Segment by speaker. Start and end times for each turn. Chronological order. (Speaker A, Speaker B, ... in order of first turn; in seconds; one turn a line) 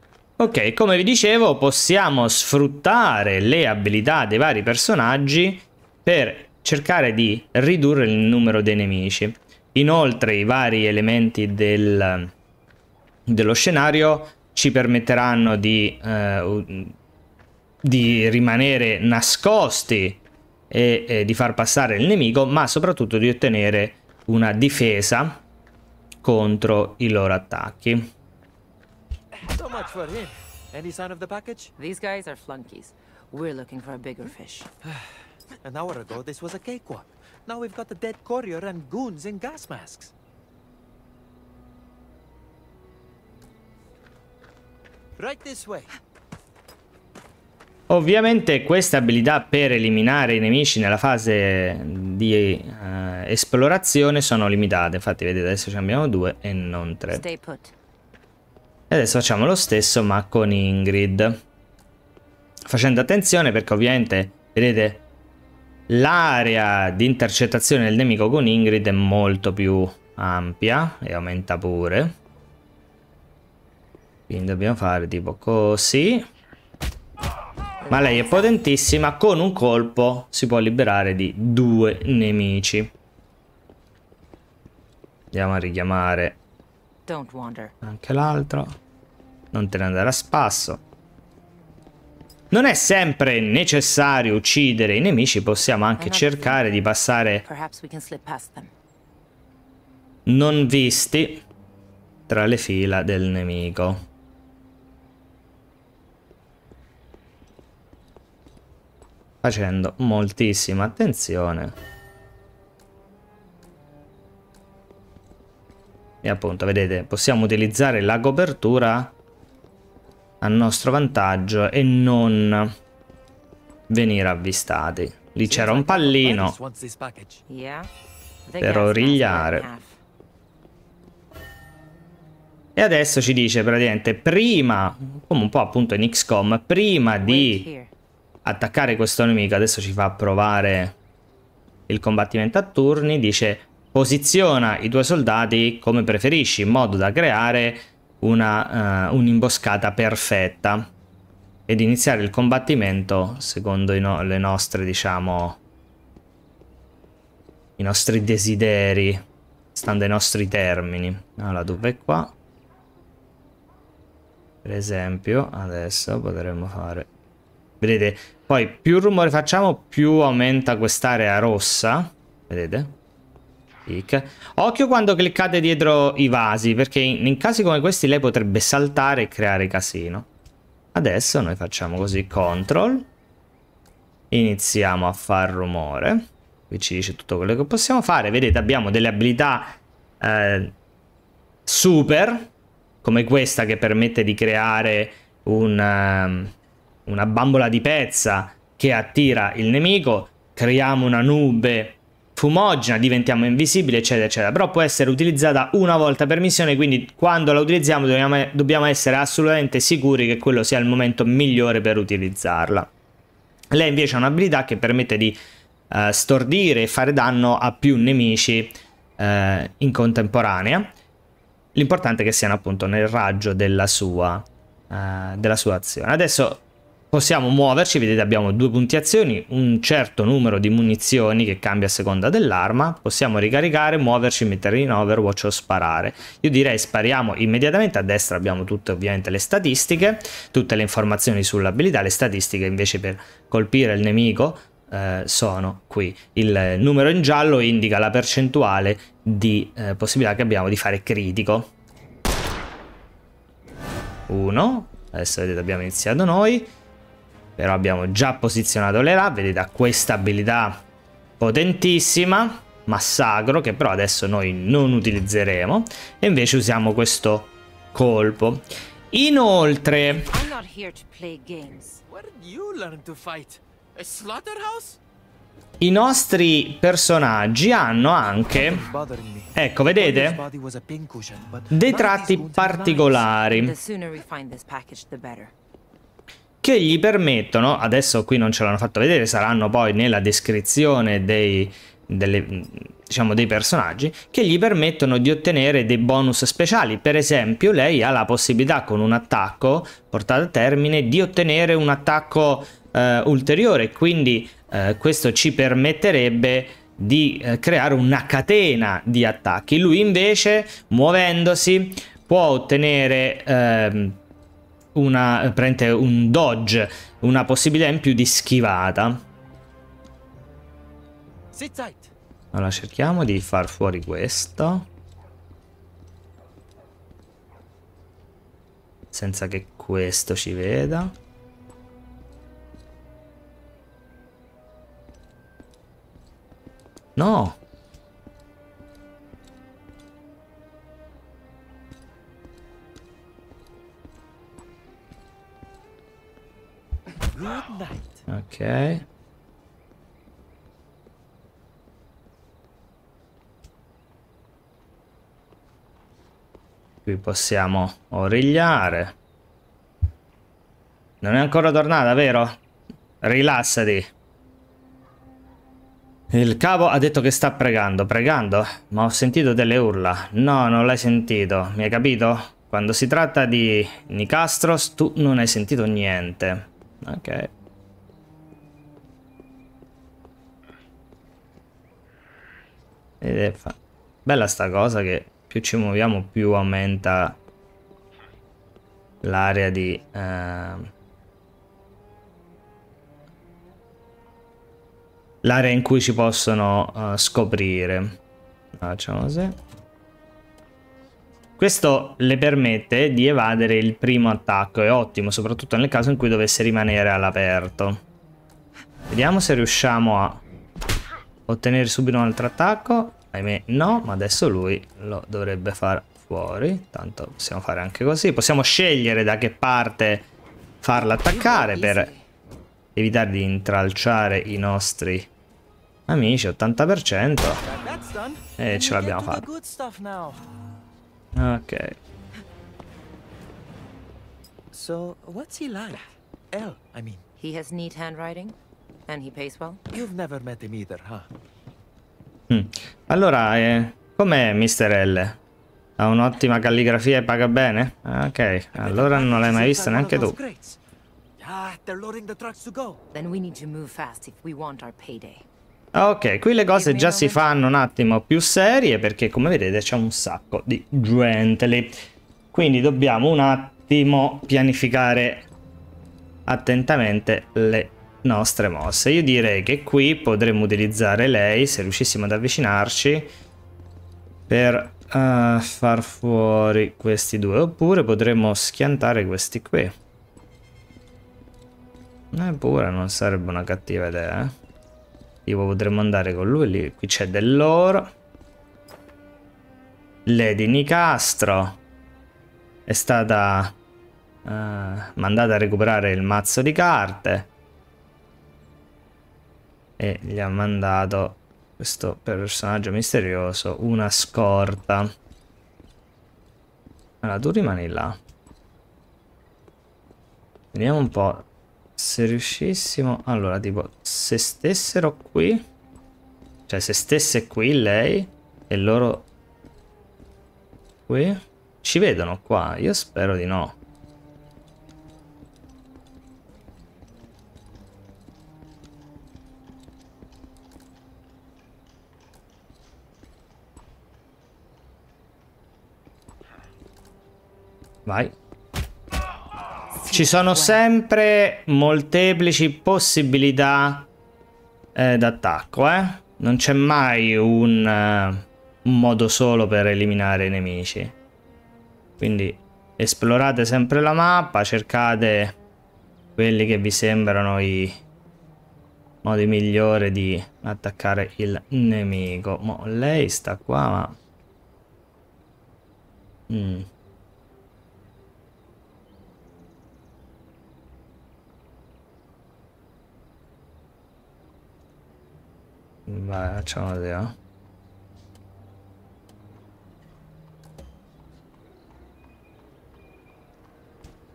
Speaker A: 0.4-12.3
Speaker A: 13.3-17.0
Speaker A: 17.8-25.4
Speaker A: 26.2-28.1
Speaker B: 29.4-31.7
Speaker C: 31.8-34.7
Speaker B: 35.6-40.1
Speaker B: 45.2-46.0
Speaker A: 47.9-57.2
Speaker C: 57.1-57.7
Speaker A: 58.9-61.4
Speaker A: 62.7-65.0
Speaker A: 65.9-72.2
Speaker A: 74.3-76.3
Speaker C: 77.8-78.5
Speaker A: 77.9-82.9
Speaker A: 85.3-86.4
Speaker C: 87.1-87.7
Speaker A: 87.8-88.8
Speaker A: 89.5-90.8
Speaker A: 92.5-97.5
Speaker C: 96.0-96.6
Speaker C: 97.4-98.7
Speaker A: 100.3-101.5
Speaker A: 102.3-104.0
Speaker A: 109.4-111.8
Speaker A: 116.2-119.1
Speaker A: 120.4-122.8
Speaker A: 123.9-126.6
Speaker B: 125.5-127.4
Speaker C: 127.5-127.9
Speaker C: 128.5-130.0
Speaker A: 128.6-129.7
Speaker A: 132.8-137.7
Speaker C: 137.2-137.9
Speaker A: 138.4-141.0
Speaker A: 141.9-150.9
Speaker A: 151.7-155.6
Speaker A: 157.8-162.3
Speaker A: 164.6-167.1
Speaker A: 167.8-172.9
Speaker A: 173.9-180.3
Speaker A: 180.9-183.1
Speaker A: 184.3-190.8
Speaker A: 191.7-192.5
Speaker A: 193.0-196.5
Speaker A: 197.1-212.9
Speaker A: 213.7-215.4
Speaker A: 215.9-220.9
Speaker A: 221.8-251.7
Speaker A: 254.3-256.7
Speaker A: 257.6-260.8
Speaker A: 261.4-270.3
Speaker C: 270.1-272.0
Speaker B: 272.1-275.0
Speaker A: 275.8-278.9
Speaker B: 278.5-283.3
Speaker A: 279.6-280.4
Speaker A: 281.7-283.7
Speaker C: 283.5-285.5
Speaker A: 286.6-314.2
Speaker A: 314.9-319.2
Speaker B: 321.5-322.1
Speaker A: 322.5-324.9
Speaker A: 329.1-331.1
Speaker A: 337.2-337.6
Speaker B: 347.3-348.2
Speaker A: 348.3-349.1
Speaker A: 357.1-359.1
Speaker A: 361.2-362.6
Speaker A: 363.2-364.1
Speaker A: 366.3-377.5
Speaker A: 383.2-387.4
Speaker A: 389.2-390.9
Speaker A: 395.4-398.2
Speaker A: 398.8-399.6
Speaker A: 401.6-408.0
Speaker A: 409.1-410.4
Speaker A: 411.5-420.3
Speaker A: 420.8-422.1
Speaker C: 420.9-422.2
Speaker A: 422.9-425.3
Speaker A: 426.1-427.6
Speaker B: 427.6-430.4
Speaker A: 428.6-429.5
Speaker A: 431.4-432.0
Speaker B: 434.7-437.2
Speaker C: 437.4-438.6
Speaker C: 439.1-439.9
Speaker B: 439.9-441.3
Speaker A: 442.5-445.4
Speaker A: 446.0-450.4
Speaker B: 448.7-450.8
Speaker B: 451.4-453.0
Speaker C: 453.1-455.4
Speaker A: 455.9-462.0
Speaker C: 456.7-457.4
Speaker A: 462.5-465.5
Speaker A: 466.5-473.3
Speaker A: 474.5-480.0
Speaker A: 482.3-484.6
Speaker A: 485.5-488.1
Speaker A: 490.3-491.8
Speaker A: 492.9-493.8
Speaker A: 494.4-497.5
Speaker A: 500.0-505.1
Speaker A: 507.2-508.2
Speaker A: 510.7-511.5
Speaker A: 512.0-515.7
Speaker A: 516.7-519.3
Speaker A: 521.1-523.8
Speaker A: 538.1-538.3
Speaker C: 540.0-540.8
Speaker A: 540.1-544.1
Speaker A: 545.0-551.1
Speaker A: 552.2-555.6
Speaker A: 556.4-558.0
Speaker A: 559.2-564.2
Speaker A: 566.5-566.9
Speaker A: 576.1-577.4